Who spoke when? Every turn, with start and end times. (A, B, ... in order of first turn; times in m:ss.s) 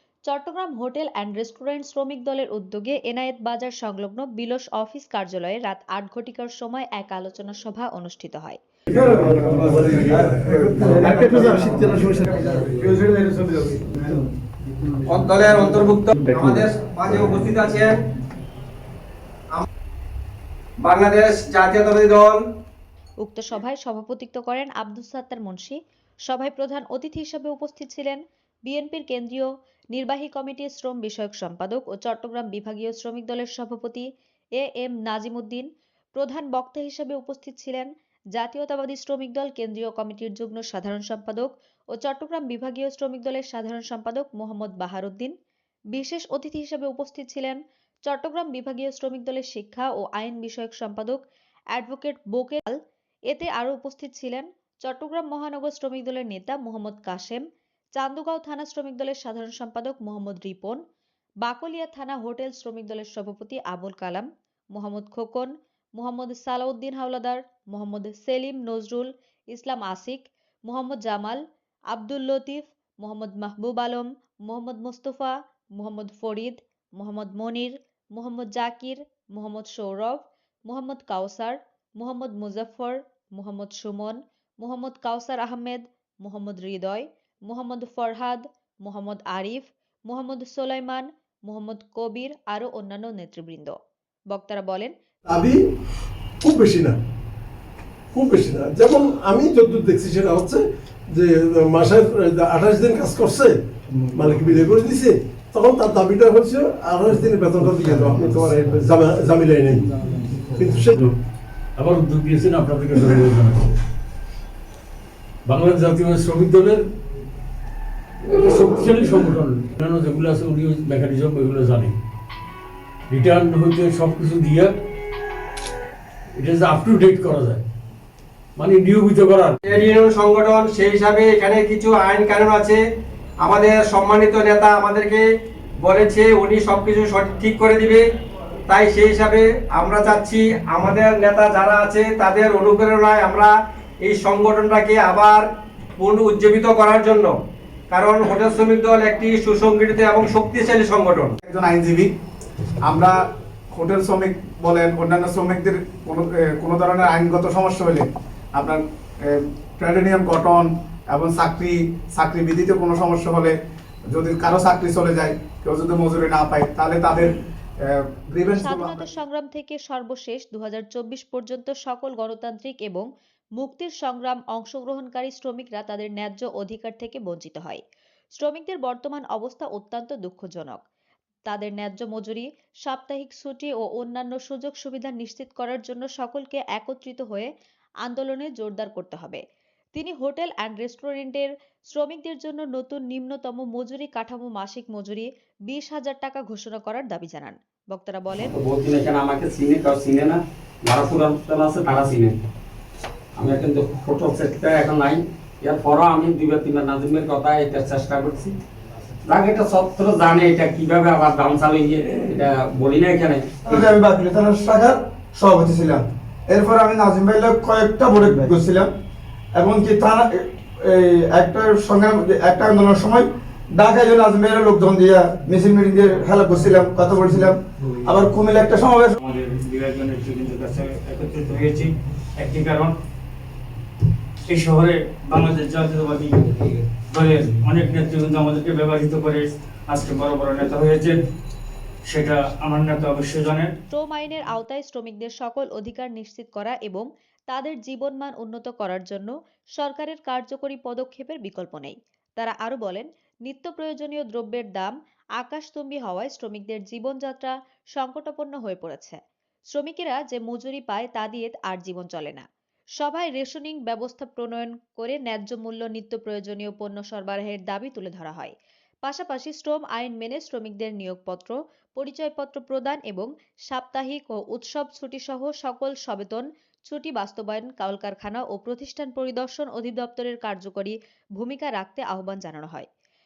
0:00.3-0:08.6 A
0:09.2-0:12.1 B
0:15.1-0:17.9 C
0:20.8-0:22.4 C
0:23.2-0:34.0 A
0:34.6-0:45.3 A
0:45.9-0:51.2 A
0:51.7-0:52.8 A
0:53.3-0:57.4 A
0:58.0-1:00.8 A
1:01.4-1:33.8 A
1:34.3-1:34.9 A
1:35.3-1:35.6 B
1:36.4-1:37.0 B
1:38.1-1:43.6 B
1:44.1-1:51.0 B
1:51.8-1:53.7 D
1:55.4-1:56.8 D
1:58.2-2:01.9 D
2:03.1-2:04.7 D
2:06.4-2:07.6 D
2:08.6-2:09.6 D
2:09.6-2:12.8 C
2:13.4-2:15.2 C
2:15.8-2:18.0 C
2:18.7-2:23.5 C
2:24.0-2:25.4 C
2:26.0-2:27.3 C
2:27.9-2:31.3 C
2:31.5-2:32.1 E
2:32.8-2:33.1 E
2:33.7-2:43.5 E
2:44.1-2:49.0 E
2:48.5-2:57.8 A
2:58.4-3:00.8 A
3:01.5-3:07.5 A
3:08.0-3:09.4 A
3:09.9-3:18.5 A
3:18.4-3:22.4 F
3:23.3-3:28.6 F
3:29.2-3:33.5 F
3:33.6-3:38.9 G
3:39.6-3:49.2 G
3:49.2-3:52.9 H
3:54.5-4:01.2 H
4:02.1-4:03.7 H
4:03.9-4:19.2 A
4:19.7-4:22.4 A
4:23.0-4:28.5 A
4:29.0-4:42.9 A